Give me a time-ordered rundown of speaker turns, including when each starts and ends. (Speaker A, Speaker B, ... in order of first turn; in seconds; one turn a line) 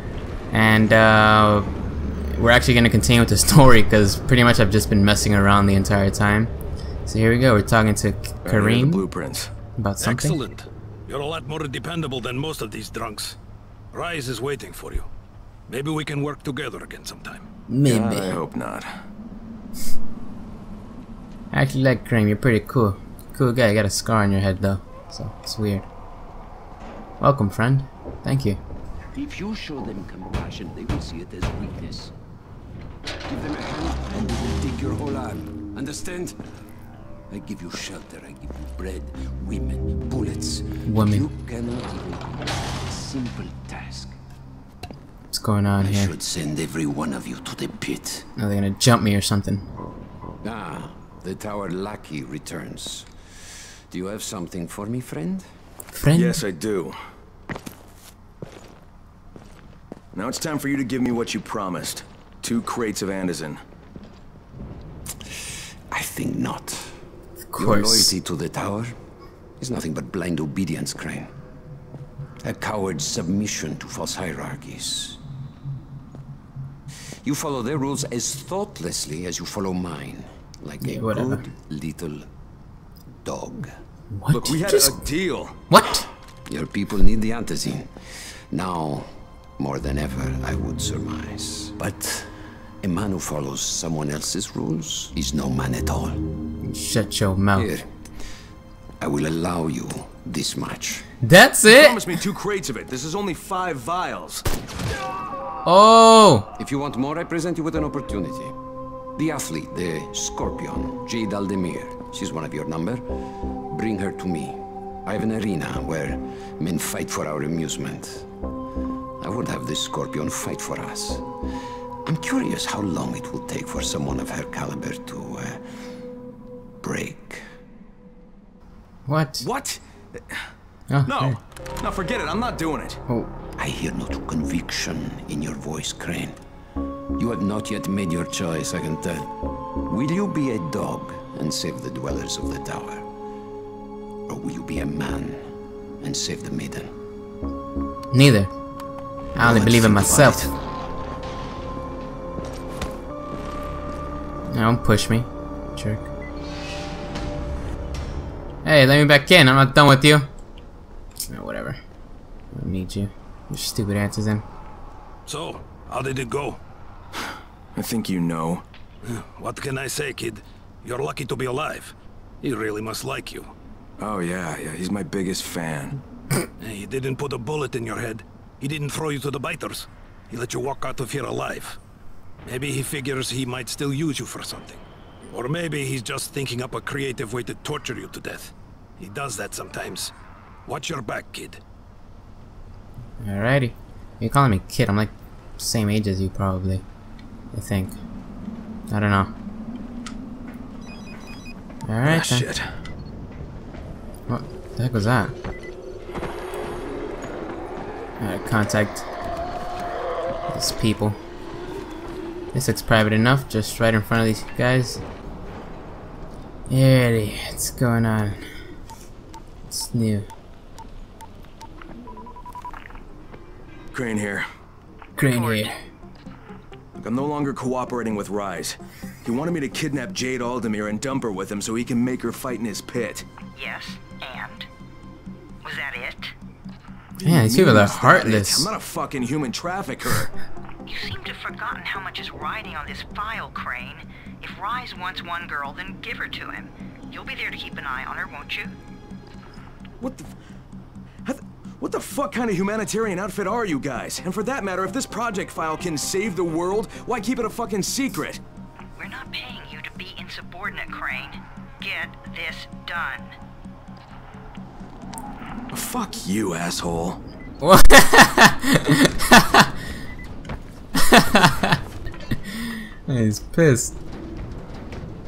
Speaker A: 0.5-1.7
Speaker A: 2.2-6.5
Speaker A: 7.0-9.0
Speaker B: 8.4-9.5
Speaker A: 9.8-10.4
Speaker C: 10.0-13.4
Speaker C: 13.9-15.1
Speaker C: 15.7-17.4
Speaker A: 17.7-18.4
Speaker B: 17.8-18.9
Speaker A: 21.5-25.9
Speaker A: 27.2-28.6
Speaker D: 29.1-32.1
Speaker D: 33.3-36.4
Speaker D: 37.3-44.1
Speaker A: 40.9-41.3
Speaker A: 45.3-46.1
Speaker D: 45.8-48.2
Speaker A: 48.4-49.6
Speaker D: 50.4-55.4
Speaker A: 55.9-56.4
Speaker B: 56.1-57.0
Speaker B: 60.1-63.6
Speaker D: 65.9-67.0
Speaker A: 67.4-68.1
Speaker D: 67.6-68.9
Speaker D: 69.6-71.3
Speaker D: 72.4-75.2
Speaker D: 77.2-82.3
Speaker A: 80.8-81.5
Speaker D: 83.2-83.7
Speaker A: 84.1-85.0
Speaker B: 84.3-85.5
Speaker A: 85.7-86.1
Speaker D: 86.5-87.9
Speaker D: 88.5-89.1
Speaker D: 89.6-96.2
Speaker A: 96.6-97.7
Speaker D: 97.5-97.9
Speaker D: 99.0-101.0
Speaker A: 101.2-102.0
Speaker B: 101.7-104.4
Speaker A: 105.6-106.5
Speaker D: 106.6-108.5
Speaker D: 109.1-113.0
Speaker D: 113.7-118.3
Speaker D: 119.2-121.2
Speaker D: 122.0-125.6
Speaker D: 126.8-127.4
Speaker A: 129.1-129.4
Speaker B: 129.4-130.3
Speaker A: 130.9-131.4
Speaker B: 131.0-133.0
Speaker D: 133.6-136.3
Speaker D: 137.2-139.3
Speaker D: 139.8-143.1
Speaker D: 144.3-145.4
Speaker D: 146.0-146.9
Speaker A: 148.1-148.5
Speaker A: 149.3-150.4
Speaker D: 149.3-150.5
Speaker A: 154.5-156.1
Speaker A: 158.6-160.3
Speaker A: 161.3-161.8
Speaker A: 162.5-164.4
Speaker C: 165.3-166.6
Speaker B: 167.7-168.6
Speaker C: 169.0-173.5
Speaker B: 174.0-176.0
Speaker C: 176.6-181.8
Speaker C: 182.4-190.1
Speaker C: 190.7-191.6
Speaker A: 193.2-196.8
Speaker A: 197.5-197.9
Speaker A: 198.9-199.3
Speaker A: 201.8-202.4
Speaker B: 202.0-202.7
Speaker A: 204.3-205.3
Speaker A: 208.2-209.1
Speaker A: 210.5-211.2
Speaker A: 212.5-215.0
Speaker A: 216.7-218.4
Speaker A: 219.7-220.2
Speaker B: 223.9-224.4
Speaker A: 225.2-225.7
Speaker E: 225.2-225.7
Speaker B: 226.9-233.2
Speaker E: 233.5-234.7
Speaker E: 235.6-236.3
Speaker B: 237.2-240.3
Speaker A: 237.2-238.7
Speaker E: 240.8-248.8
Speaker B: 250.0-250.3
Speaker B: 251.2-258.4
Speaker E: 258.9-263.3
Speaker B: 265.7-267.2
Speaker A: 267.6-269.7
Speaker A: 271.0-271.8
Speaker A: 272.5-273.9